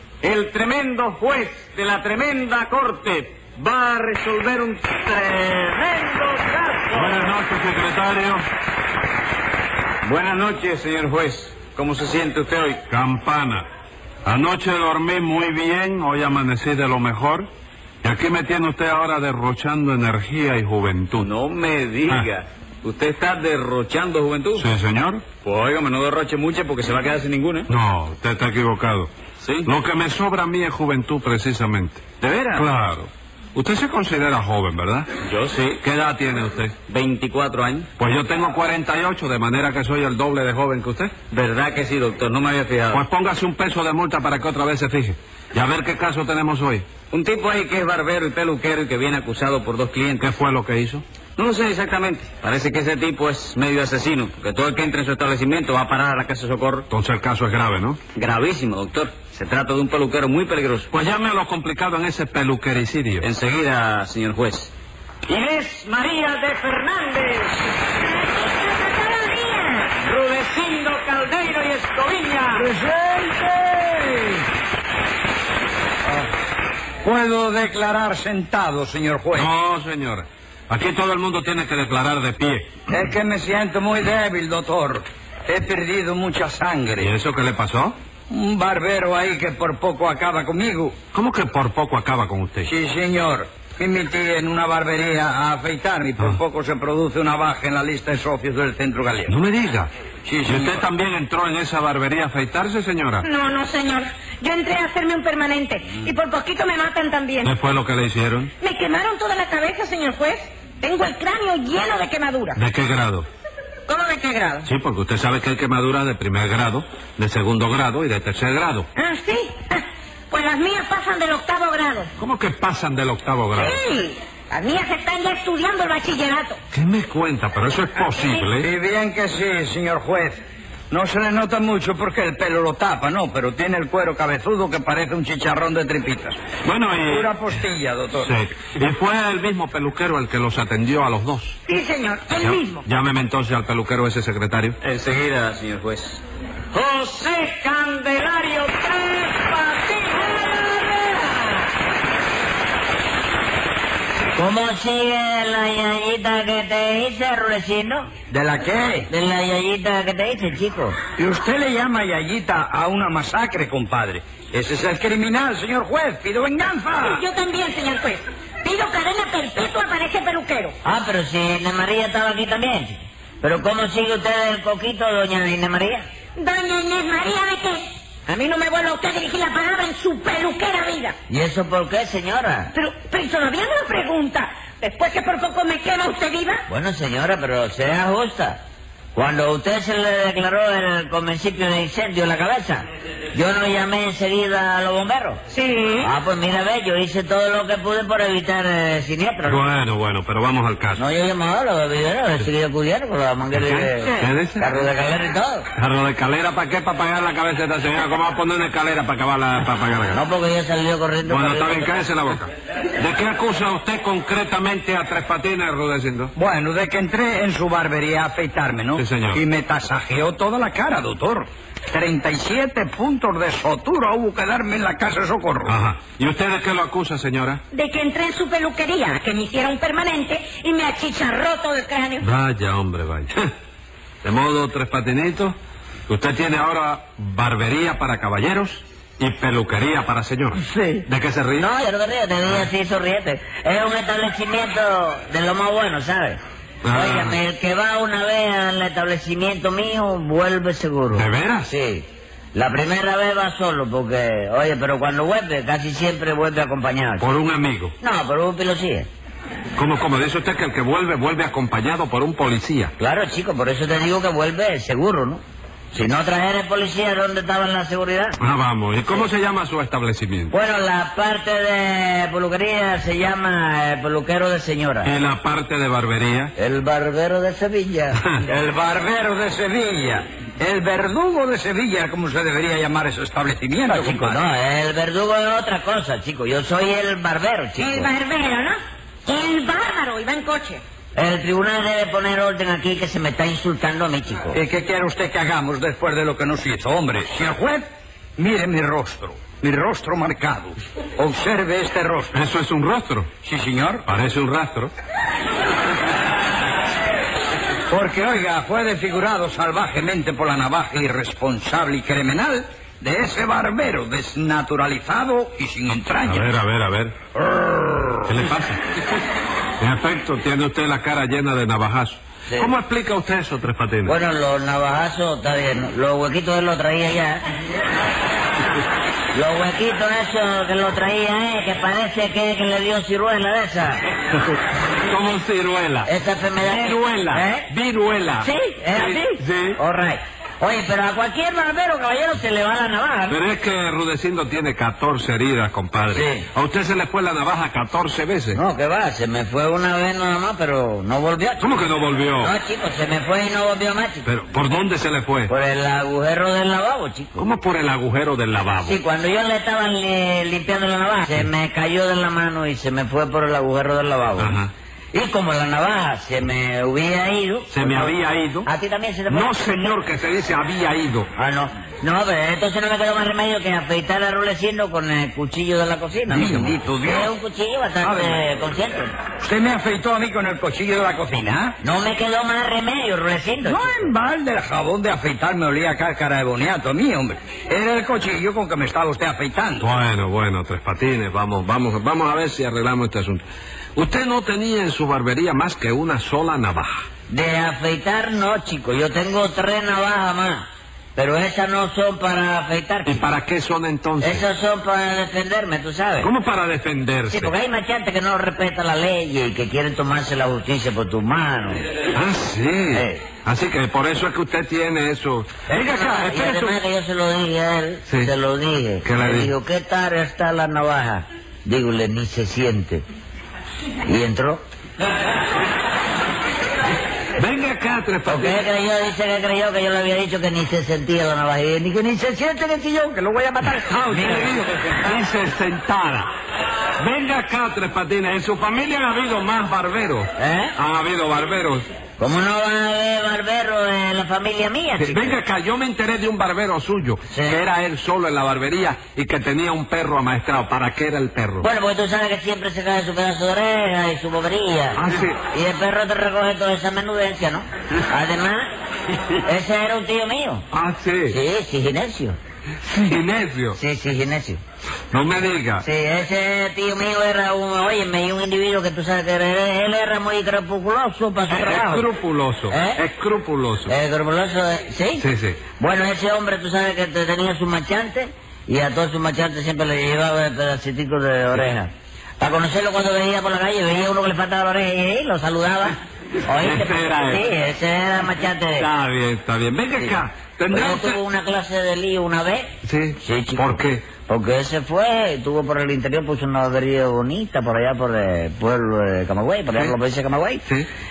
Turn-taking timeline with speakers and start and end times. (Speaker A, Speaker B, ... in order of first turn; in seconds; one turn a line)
Speaker A: 0.2-7.2
Speaker B: 6.9-8.4
Speaker A: 10.0-12.8
Speaker B: 12.9-13.7
Speaker B: 14.2-17.5
Speaker B: 18.0-21.3
Speaker A: 21.2-24.6
Speaker B: 24.6-25.2
Speaker A: 25.4-27.7
Speaker B: 27.7-29.1
Speaker A: 29.4-29.7
Speaker B: 29.6-32.0
Speaker A: 32.2-32.6
Speaker B: 32.5-35.1
Speaker A: 35.3-35.8
Speaker B: 35.8-36.8
Speaker A: 36.9-37.9
Speaker B: 38.0-41.1
Speaker A: 41.3-43.0
Speaker B: 42.9-46.9
Speaker A: 47.1-50.2
Speaker B: 50.2-51.0
Speaker A: 51.4-56.9
Speaker B: 56.9-58.0
Speaker A: 58.2-60.9
Speaker B: 60.9-63.3
Speaker A: 63.2-64.7
Speaker A: 65.3-67.5
Speaker C: 68.0-69.9
Speaker A: 70.0-72.6
Speaker D: 72.5-74.4
Speaker D: 77.0-79.5
Speaker B: 79.3-82.7
Speaker D: 82.9-87.1
Speaker B: 87.0-88.0
Speaker D: 88.3-91.0
Speaker B: 91.1-92.7
Speaker D: 92.7-99.3
Speaker B: 99.3-99.9
Speaker D: 100.2-100.8
Speaker B: 100.5-103.3
Speaker C: 103.2-107.5
Speaker B: 107.4-108.5
Speaker C: 108.6-112.6
Speaker B: 112.6-113.3
Speaker C: 113.9-114.7
Speaker B: 114.7-118.9
Speaker C: 119.0-122.1
Speaker B: 122.2-123.8
Speaker C: 123.6-126.6
Speaker B: 126.7-128.7
Speaker D: 128.6-136.4
Speaker B: 136.6-137.4
Speaker D: 137.1-138.3
Speaker B: 138.2-141.6
Speaker C: 141.7-142.8
Speaker B: 142.4-144.8
Speaker A: 144.8-146.2
Speaker A: 146.7-150.6
Speaker E: 154.3-158.1
Speaker D: 158.3-159.1
Speaker E: 159.1-161.0
Speaker D: 161.2-167.2
Speaker C: 167.1-170.7
Speaker E: 170.8-176.1
Speaker C: 176.4-181.2
Speaker E: 181.3-182.7
Speaker C: 182.7-186.6
Speaker E: 186.7-188.6
Speaker E: 189.2-195.4
Speaker C: 195.5-196.1
Speaker E: 196.0-199.6
Speaker B: 199.4-201.0
Speaker E: 201.0-205.7
Speaker B: 203.5-204.7
Speaker B: 205.8-210.2
Speaker E: 210.1-212.1
Speaker B: 211.2-216.3
Speaker D: 216.4-225.8
Speaker B: 219.0-219.4
Speaker B: 225.7-227.6
Speaker C: 227.7-232.3
Speaker B: 232.2-233.4
Speaker B: 234.2-235.6
Speaker B: 236.1-241.7
Speaker E: 240.7-241.1
Speaker E: 241.6-246.4
Speaker B: 246.8-247.4
Speaker E: 246.9-257.2
Speaker B: 251.1-251.7
Speaker B: 257.2-257.9
Speaker E: 258.0-259.1
Speaker B: 259.8-262.9
Speaker E: 263.0-265.4
Speaker E: 265.9-268.4
Speaker B: 268.4-270.5
Speaker E: 270.5-275.1
Speaker B: 275.0-276.5
Speaker E: 276.6-278.2
Speaker D: 278.5-284.4
Speaker E: 283.9-288.1
Speaker C: 287.8-288.8
Speaker C: 289.3-290.8
Speaker E: 291.2-294.6
Speaker D: 294.5-297.9
Speaker D: 298.4-302.4
Speaker B: 302.3-303.3
Speaker D: 303.4-304.1
Speaker B: 304.1-304.9
Speaker D: 307.9-316.5
Speaker B: 316.2-317.1
Speaker D: 317.4-318.3
Speaker B: 318.3-318.8
Speaker B: 319.8-324.2
Speaker E: 324.1-327.4
Speaker E: 329.3-334.0
Speaker B: 335.1-336.1
Speaker E: 336.1-337.7
Speaker B: 336.6-339.8
Speaker E: 338.4-343.4
Speaker B: 343.3-348.6
Speaker E: 346.1-346.5
Speaker E: 348.5-351.8
Speaker B: 351.6-352.6
Speaker E: 352.4-354.3
Speaker B: 354.2-355.5
Speaker E: 355.5-357.5
Speaker B: 357.4-359.0
Speaker E: 358.8-364.6
Speaker B: 364.4-364.7
Speaker E: 365.1-369.9
Speaker B: 367.7-368.7
Speaker B: 369.3-371.3
Speaker E: 371.4-379.1
Speaker D: 376.3-377.3
Speaker D: 378.0-378.4
Speaker D: 379.4-381.8
Speaker E: 381.8-384.1
Speaker D: 383.6-389.9
Speaker B: 389.8-393.4
Speaker B: 394.0-397.1
Speaker E: 397.3-403.3
Speaker B: 403.1-404.4
Speaker E: 404.2-406.3
Speaker B: 406.2-407.5
Speaker E: 407.3-411.8
Speaker B: 412.1-416.8
Speaker E: 412.9-413.2
Speaker E: 415.7-423.0
Speaker B: 419.0-419.5
Speaker E: 424.1-424.6
Speaker B: 427.4-428.6
Speaker E: 428.3-434.8
Speaker B: 433.9-436.3
Speaker B: 437.0-441.9
Speaker E: 440.4-440.8
Speaker E: 442.2-445.4
Speaker B: 445.0-451.7
Speaker E: 447.3-447.6
Speaker E: 451.6-458.7
Speaker B: 455.0-455.4
Speaker E: 459.4-460.6
Speaker B: 460.7-461.4
Speaker E: 461.3-462.4
Speaker B: 462.8-463.8
Speaker E: 463.8-464.6
Speaker B: 465.1-465.9
Speaker E: 465.8-472.1
Speaker B: 471.5-473.9
Speaker E: 472.7-473.0
Speaker E: 473.9-475.2
Speaker B: 475.2-475.6
Speaker E: 475.8-488.9
Speaker B: 486.6-487.4
Speaker B: 488.8-491.2
Speaker E: 490.7-492.7
Speaker B: 492.8-494.1
Speaker E: 493.2-500.6